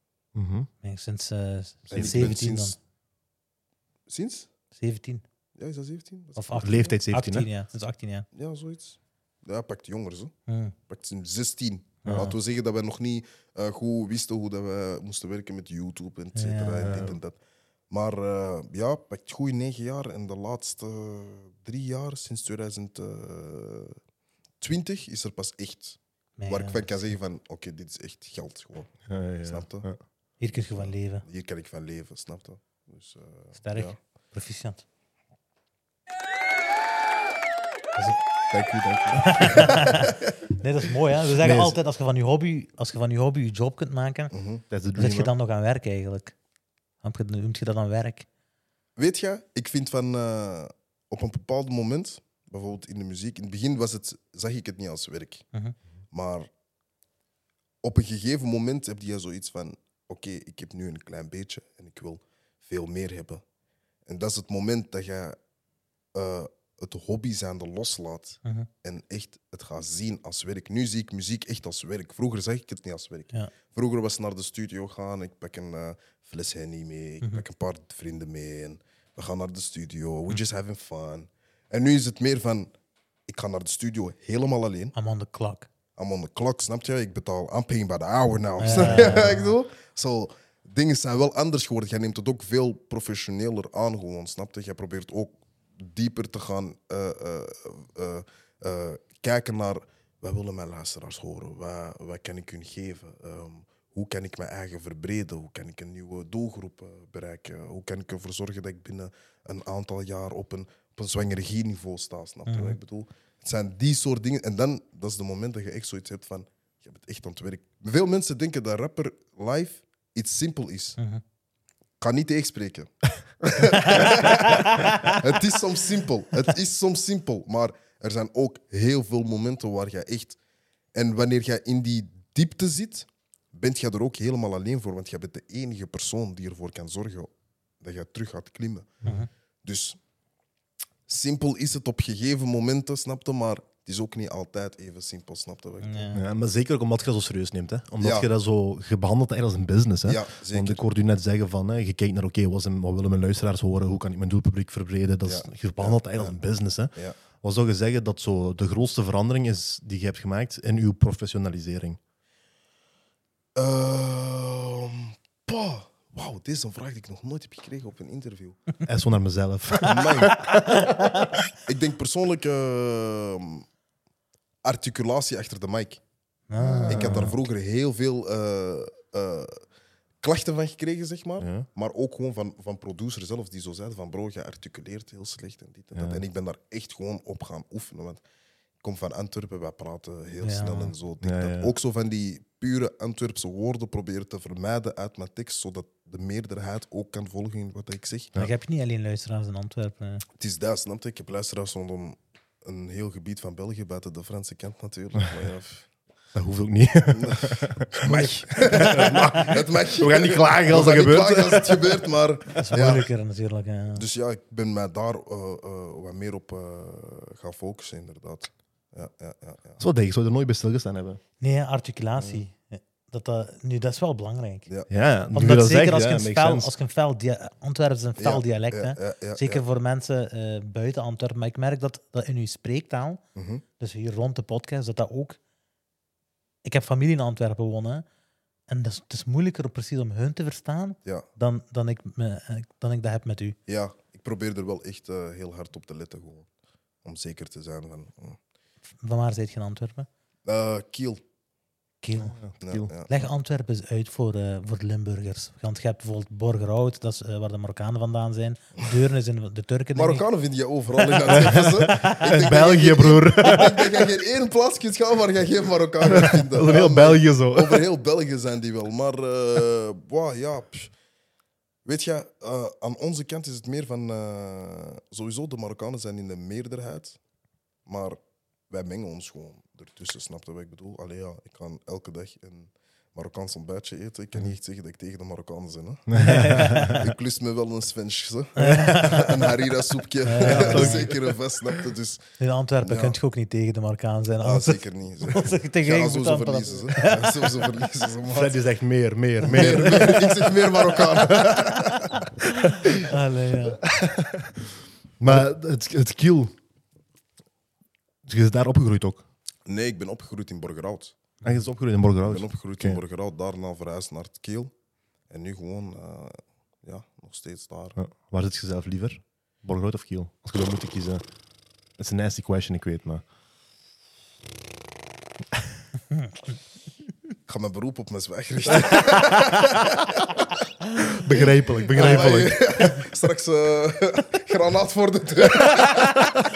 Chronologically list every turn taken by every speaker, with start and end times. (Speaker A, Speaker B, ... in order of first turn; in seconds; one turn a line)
Speaker A: 0.3-0.7
Speaker B: 0.8-2.8
Speaker C: 1.9-2.8
Speaker A: 1.9-2.4
Speaker C: 4.1-4.5
Speaker B: 4.8-5.2
Speaker C: 5.6-6.7
Speaker B: 6.4-8.3
Speaker A: 6.6-7.5
Speaker C: 8.3-10.3
Speaker B: 10.5-10.8
Speaker C: 10.9-17.4
Speaker B: 12.0-12.4
Speaker A: 12.1-12.3
Speaker B: 16.4-17.1
Speaker A: 16.8-17.2
Speaker C: 17.9-24.0
Speaker C: 24.6-28.9
Speaker B: 26.4-27.0
Speaker A: 29.1-30.0
Speaker C: 29.4-29.9
Speaker B: 30.4-31.2
Speaker C: 30.7-34.0
Speaker B: 33.6-34.8
Speaker C: 38.5-40.2
Speaker B: 39.1-44.3
Speaker A: 41.2-41.8
Speaker C: 44.3-44.6
Speaker A: 44.7-45.3
Speaker B: 45.0-46.3
Speaker B: 47.0-48.3
Speaker C: 49.0-55.5
Speaker C: 56.1-56.5
Speaker C: 57.8-63.4
Speaker C: 64.1-65.4
Speaker C: 66.2-82.7
Speaker C: 83.3-84.9
Speaker B: 85.0-85.7
Speaker C: 86.0-121.0
Speaker B: 88.6-89.5
Speaker A: 88.7-89.3
Speaker B: 112.5-112.8
Speaker C: 122.0-122.9
Speaker C: 123.4-130.4
Speaker B: 123.9-125.2
Speaker C: 130.9-137.3
Speaker C: 137.8-139.0
Speaker B: 139.0-139.3
Speaker C: 139.6-140.0
Speaker C: 141.1-146.1
Speaker B: 145.8-146.2
Speaker A: 146.1-162.0
Speaker C: 148.0-148.3
Speaker C: 150.1-150.8
Speaker C: 155.2-156.4
Speaker C: 163.6-168.6
Speaker A: 168.9-170.5
Speaker C: 169.8-170.4
Speaker B: 170.3-171.3
Speaker C: 171.7-173.7
Speaker C: 174.6-176.0
Speaker B: 176.5-177.3
Speaker A: 176.6-177.3
Speaker C: 176.9-179.6
Speaker C: 180.2-188.2
Speaker A: 181.4-181.7
Speaker A: 185.9-186.2
Speaker C: 188.8-198.3
Speaker B: 190.4-190.9
Speaker A: 191.2-191.7
Speaker B: 198.4-200.2
Speaker C: 200.4-205.9
Speaker A: 206.3-212.0
Speaker C: 207.1-213.1
Speaker B: 212.6-214.0
Speaker C: 213.9-219.8
Speaker A: 219.8-221.2
Speaker B: 221.4-224.7
Speaker A: 224.9-226.7
Speaker B: 225.3-233.2
Speaker C: 228.2-229.6
Speaker C: 233.3-233.6
Speaker B: 233.8-235.4
Speaker B: 236.6-238.1
Speaker B: 238.7-243.6
Speaker C: 243.7-246.5
Speaker C: 247.0-248.4
Speaker B: 249.0-250.1
Speaker C: 250.5-251.2
Speaker B: 252.0-252.4
Speaker A: 252.2-252.9
Speaker C: 252.6-253.1
Speaker B: 253.1-260.2
Speaker C: 259.9-270.9
Speaker A: 261.3-264.0
Speaker B: 261.4-262.5
Speaker A: 266.1-267.9
Speaker C: 271.9-277.2
Speaker C: 277.9-278.2
Speaker C: 278.7-292.2
Speaker A: 286.1-287.0
Speaker B: 286.2-287.1
Speaker B: 288.6-289.6
Speaker A: 288.6-289.5
Speaker B: 290.2-291.1
Speaker A: 290.4-291.3
Speaker B: 292.4-297.7
Speaker C: 292.8-293.2
Speaker C: 294.4-298.6
Speaker A: 298.3-300.4
Speaker B: 299.4-300.2
Speaker C: 299.5-302.2
Speaker A: 301.2-301.5
Speaker B: 302.5-303.8
Speaker A: 303.8-306.5
Speaker A: 308.2-309.2
Speaker C: 309.7-311.1
Speaker A: 311.4-313.0
Speaker C: 312.2-314.7
Speaker C: 315.3-318.0
Speaker A: 318.0-321.2
Speaker A: 322.0-323.2
Speaker C: 327.5-330.2
Speaker A: 328.8-329.8
Speaker A: 331.0-332.7
Speaker C: 331.3-336.1
Speaker B: 331.9-332.5
Speaker A: 335.8-336.4